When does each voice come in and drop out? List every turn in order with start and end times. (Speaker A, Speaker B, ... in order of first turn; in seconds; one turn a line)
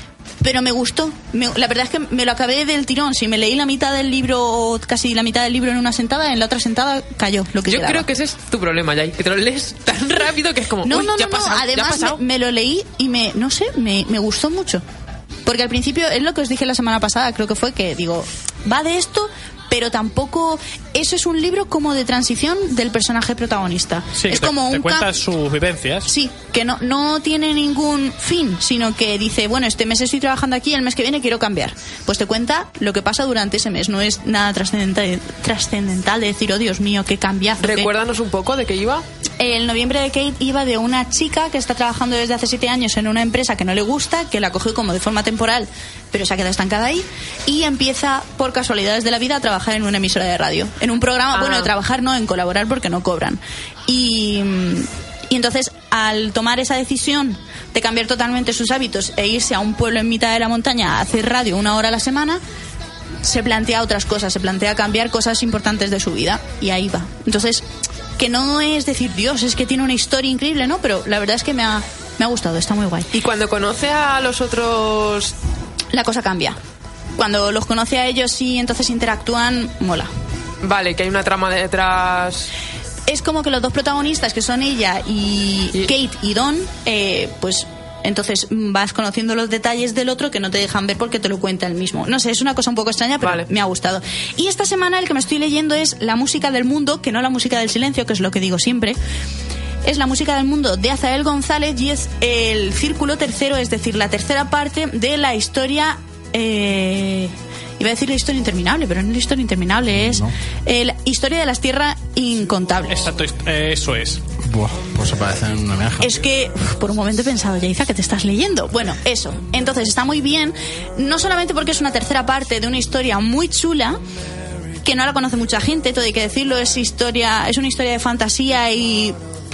Speaker A: 0.4-8.0
Speaker B: 7.7-12.2
Speaker A: 10.8-14.8
Speaker A: 15.5-25.1
Speaker C: 24.1-26.1
Speaker A: 26.1-37.9
Speaker B: 37.6-39.0
Speaker A: 39.4-62.4
Speaker B: 51.3-51.7
Speaker A: 63.2-67.6
Speaker A: 68.2-73.1
Speaker B: 73.1-75.3
Speaker A: 75.9-76.6
Speaker A: 77.2-80.1
Speaker B: 80.6-82.5
Speaker A: 83.1-99.0
Speaker B: 93.2-93.5
Speaker A: 99.8-113.1
Speaker D: 109.9-110.3
Speaker C: 112.9-114.2
Speaker D: 114.4-116.1
Speaker A: 116.0-124.0
Speaker A: 124.8-129.2